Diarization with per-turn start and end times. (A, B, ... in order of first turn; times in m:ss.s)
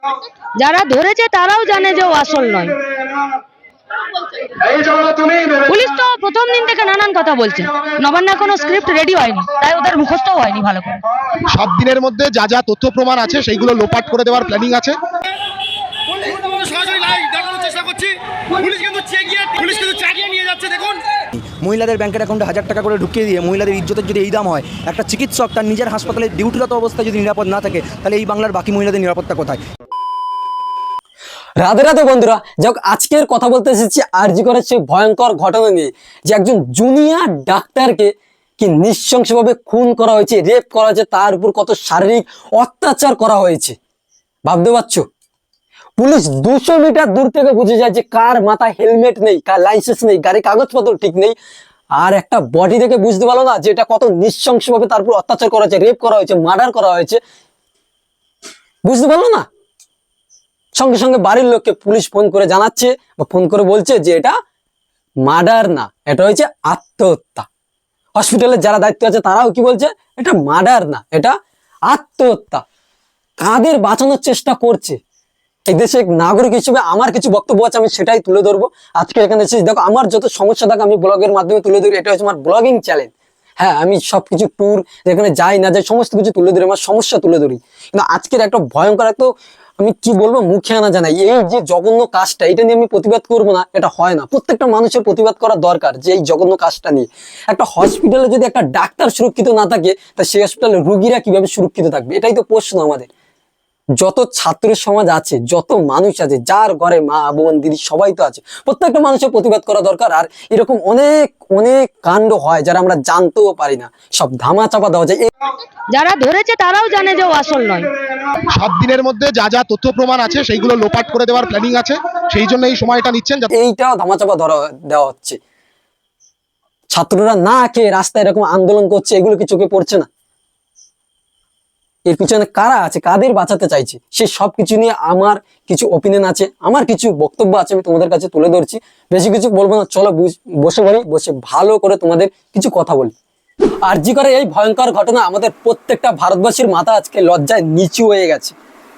0:00.6-0:02.8 A
0:05.6-0:11.0 A
0:11.5-0:15.0 B
0:16.1-0:21.0 C
0:21.4-0:29.6 D
0:31.6-0:43.8 E
0:44.4-0:45.0 E
0:46.0-0:51.3 E
0:52.0-0:57.2 E
0:58.8-0:59.4 E
1:00.7-1:04.4 E
1:05.2-1:07.5 E
1:08.2-1:11.3 E
1:11.9-1:12.6 E
1:13.4-1:15.0 E
1:15.7-1:43.1 E
1:44.0-1:55.3 E
1:55.9-1:57.9 A
1:58.5-2:03.5 B
2:03.5-2:05.4 E
2:06.9-2:10.1 E
2:12.1-2:23.1 E
2:23.8-2:28.5 E